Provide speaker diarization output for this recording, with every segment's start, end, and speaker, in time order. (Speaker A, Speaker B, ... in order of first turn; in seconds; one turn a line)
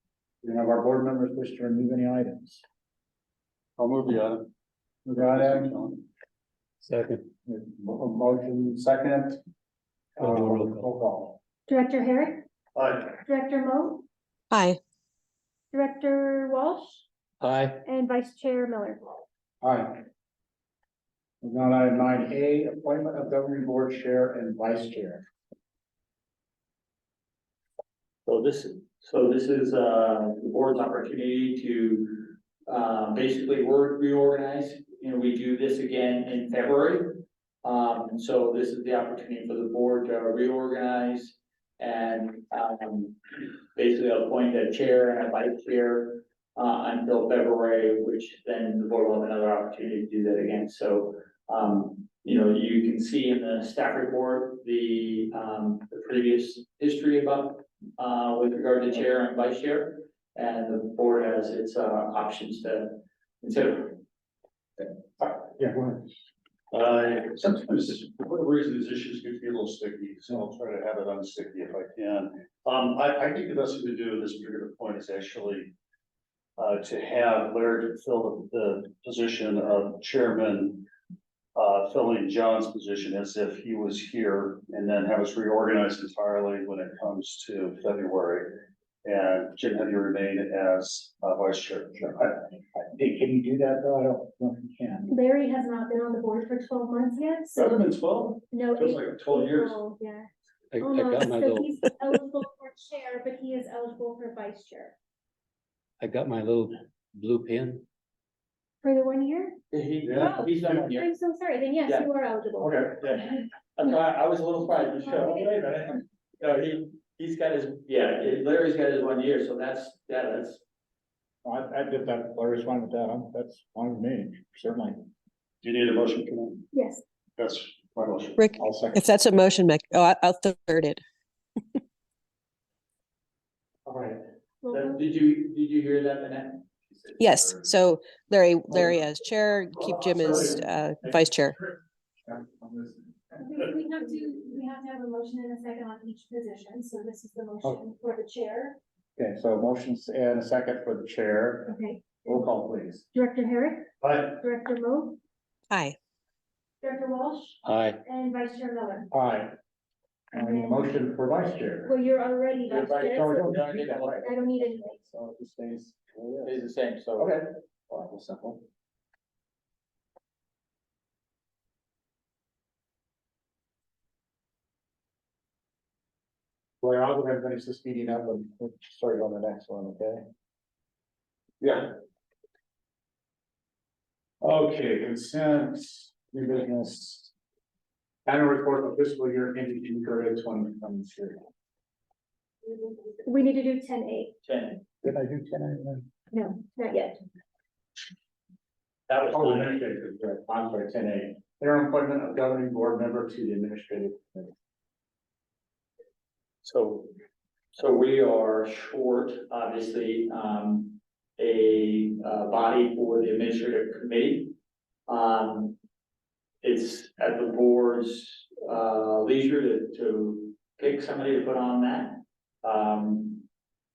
Speaker A: 0.4-2.6
Speaker B: 3.8-4.5
Speaker A: 5.0-5.7
Speaker B: 5.2-6.0
Speaker C: 6.8-7.2
Speaker A: 7.5-9.4
Speaker A: 10.2-11.4
Speaker C: 10.2-10.9
Speaker D: 11.7-12.4
Speaker B: 12.7-13.1
Speaker D: 13.2-14.0
Speaker E: 14.5-14.8
Speaker D: 15.7-17.0
Speaker C: 17.4-17.8
Speaker D: 17.8-19.2
Speaker A: 19.6-20.0
Speaker A: 21.4-25.2
Speaker F: 28.2-43.2
Speaker F: 43.7-64.0
Speaker A: 65.2-66.0
Speaker B: 66.7-75.7
Speaker B: 76.6-80.8
Speaker B: 81.5-92.4
Speaker A: 92.7-95.1
Speaker D: 95.1-97.8
Speaker B: 97.5-99.8
Speaker D: 98.5-100.3
Speaker C: 100.7-101.9
Speaker D: 100.8-104.9
Speaker C: 106.0-107.8
Speaker D: 108.8-109.6
Speaker F: 109.7-111.1
Speaker A: 110.0-110.9
Speaker D: 110.2-113.4
Speaker A: 112.6-113.2
Speaker F: 113.0-120.6
Speaker D: 115.0-115.5
Speaker A: 121.4-125.0
Speaker B: 125.6-126.7
Speaker D: 126.7-127.0
Speaker B: 127.4-128.4
Speaker E: 128.4-131.0
Speaker A: 128.6-129.0
Speaker A: 133.8-134.2
Speaker D: 134.6-135.0
Speaker F: 134.7-137.7
Speaker E: 137.2-141.6
Speaker F: 139.7-141.2
Speaker A: 142.3-143.0
Speaker D: 143.4-148.8
Speaker A: 149.2-153.1
Speaker D: 151.7-152.4
Speaker D: 153.1-155.2
Speaker A: 154.0-154.4
Speaker E: 155.7-155.9
Speaker D: 156.8-159.1
Speaker C: 157.6-158.0
Speaker A: 159.1-159.5
Speaker A: 160.3-161.9
Speaker D: 160.3-160.8
Speaker D: 161.8-163.6
Speaker F: 162.7-164.2
Speaker A: 163.0-166.6
Speaker D: 164.2-165.0
Speaker F: 166.4-167.4
Speaker A: 167.2-168.6
Speaker A: 176.8-180.2
Speaker A: 181.6-181.9
Speaker A: 184.4-187.3
Speaker A: 188.2-191.4
Speaker D: 192.7-194.3
Speaker F: 194.4-194.8
Speaker A: 195.0-196.1
Speaker D: 196.3-197.2
Speaker F: 199.1-199.8
Speaker A: 199.3-204.5
Speaker F: 206.6-207.1
Speaker F: 207.7-214.5
Speaker F: 215.1-215.7
Speaker F: 216.6-223.4